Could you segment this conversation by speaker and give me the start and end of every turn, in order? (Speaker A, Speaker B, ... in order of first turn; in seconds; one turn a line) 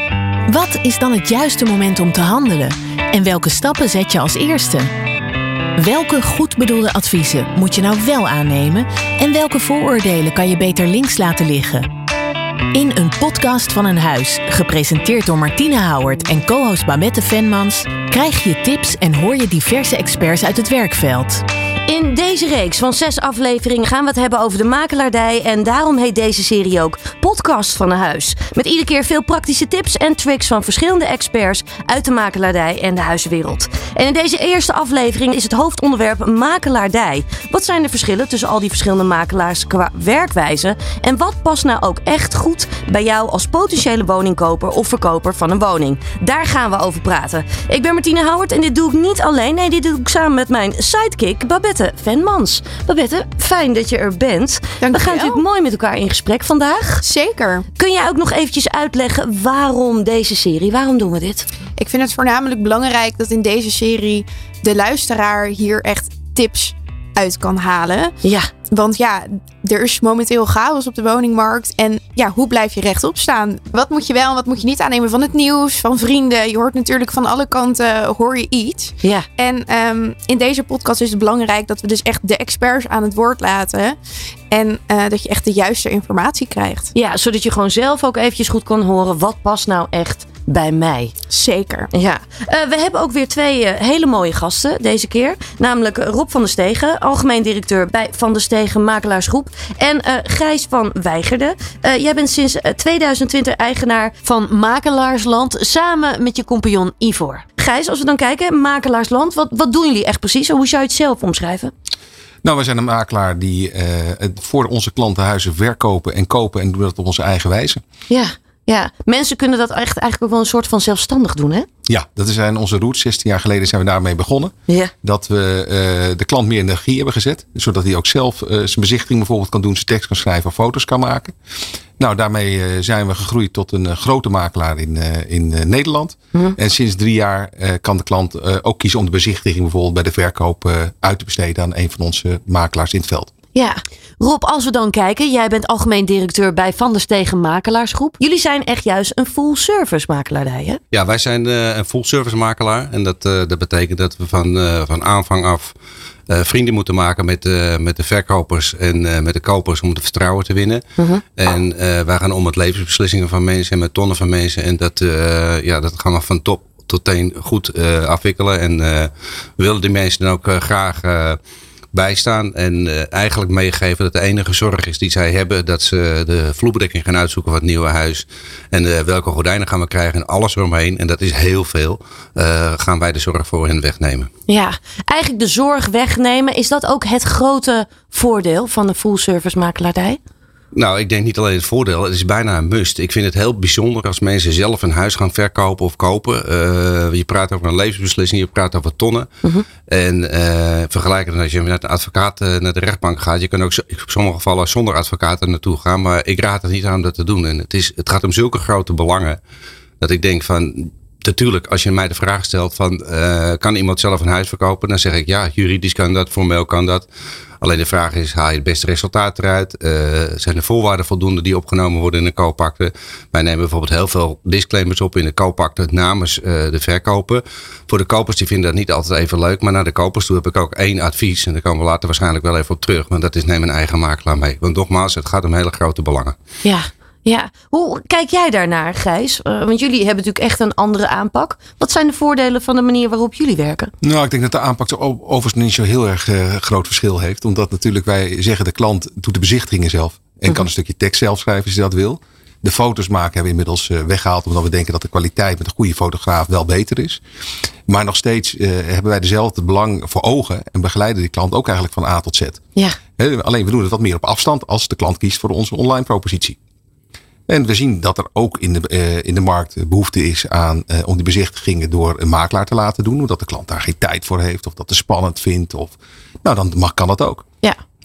Speaker A: 0.5-4.9
Speaker A: 5.8-11.9
Speaker A: 12.7-21.4
Speaker B: 21.9-57.0
Speaker C: 54.8-55.4
Speaker C: 57.0-57.6
Speaker B: 57.8-61.5
Speaker C: 61.8-68.2
Speaker B: 68.2-68.5
Speaker C: 68.7-84.0
Speaker B: 79.0-79.3
Speaker C: 84.5-86.9
Speaker B: 86.9-91.1
Speaker C: 91.3-91.9
Speaker B: 91.9-111.7
Speaker D: 112.4-117.8
Speaker B: 118.1-121.7
Speaker D: 121.9-131.3
Speaker B: 124.7-124.9
Speaker D: 132.0-143.3
Speaker B: 143.5-150.8
Speaker E: 150.9-155.7
Speaker E: 156.3-160.8
Speaker B: 161.0-161.2
Speaker E: 161.3-171.4
Speaker E: 171.9-184.3
Speaker B: 184.5-190.2
Speaker E: 190.7-199.3
Speaker E: 199.9-209.4
Speaker E: 210.0-217.1
Speaker E: 217.6-236.3
Speaker B: 236.6-243.9
Speaker D: 244.0-257.2
Speaker D: 257.9-262.6
Speaker D: 263.2-266.6
Speaker D: 267.5-277.4